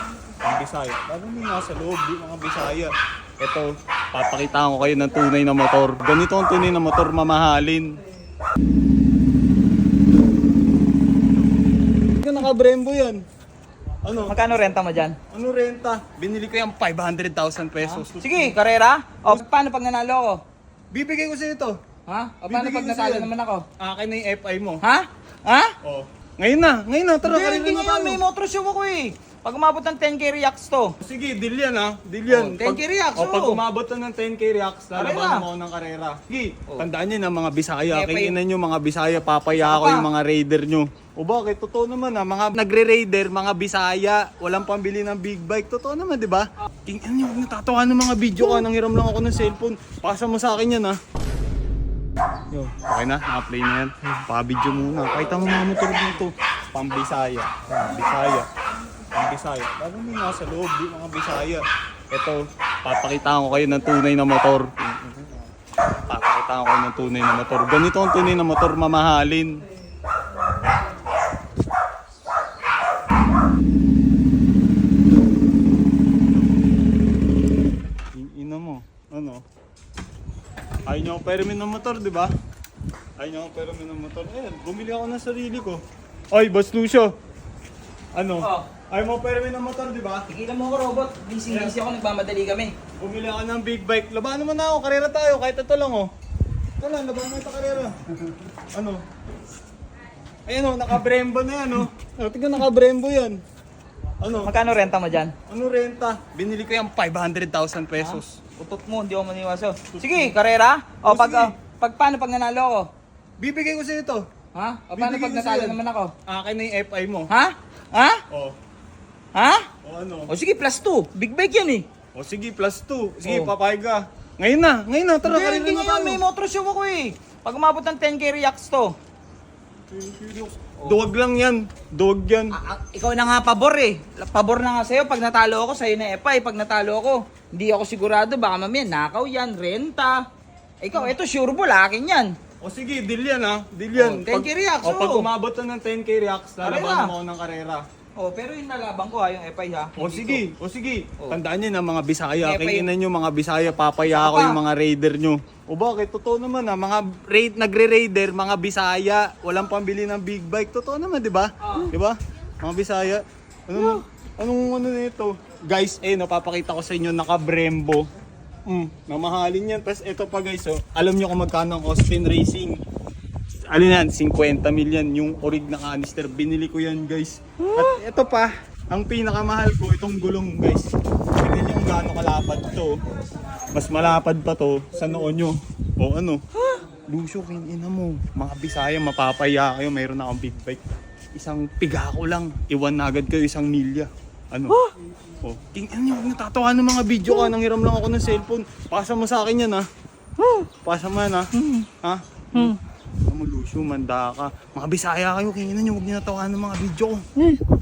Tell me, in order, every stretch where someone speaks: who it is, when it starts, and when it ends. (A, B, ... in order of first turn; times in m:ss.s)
0:00.4-0:07.9 A
0:12.2-0:13.2 A
0:14.0-0:14.4 A
0:14.3-0:15.2 B
0:15.3-0:18.6 A
0:17.8-0:20.4 B
0:20.9-0:21.8 A
0:22.1-0:23.6 B
0:22.5-0:24.8 A
0:24.8-0:25.7 B
0:25.8-0:28.2 A
0:27.2-0:31.0 B
0:31.0-0:51.0 A
0:32.3-0:33.6 B
0:35.0-0:35.4 B
0:37.9-0:38.4 B
0:39.5-0:40.1 B
0:52.5-0:58.5 A
0:59.1-1:05.5 A
1:06.1-1:09.6 A
1:18.1-1:19.4 A
1:20.9-1:22.3 A
1:23.2-1:27.1 A
1:28.1-1:30.2 A
1:28.4-1:28.6 B
1:30.3-1:32.7 B
1:33.0-1:36.1 A
1:36.8-1:38.0 A
1:38.7-1:39.0 A
1:40.5-1:43.4 A
1:44.2-1:44.5 A
1:44.4-1:45.3 B
1:45.5-1:48.4 A
1:48.0-1:52.9 B
1:49.9-1:50.3 A
1:51.0-1:51.5 A
1:53.4-1:54.2 A
1:54.5-1:56.1 B
1:54.9-1:57.3 A
1:57.3-1:58.2 B
1:59.3-1:59.7 B
1:59.8-2:00.3 A
2:00.3-2:01.8 B
2:02.1-2:06.2 A
2:03.2-2:03.5 B
2:05.2-2:08.9 B
2:09.9-2:12.6 A
2:12.5-2:20.2 B
2:20.8-2:22.3 B
2:22.6-2:27.8 A
2:24.0-2:25.3 B
2:26.6-2:27.1 B
2:28.2-2:30.4 B
2:30.0-2:48.0 A
2:32.4-2:32.9 B
2:34.0-2:34.6 B
2:41.6-2:41.9 B
2:48.7-2:52.8 A
2:53.7-3:03.0 A
3:03.7-3:06.4 A
3:07.1-3:10.8 A
3:11.3-3:14.9 A
3:15.4-3:19.9 A
3:20.8-3:22.8 A
3:23.3-3:27.2 A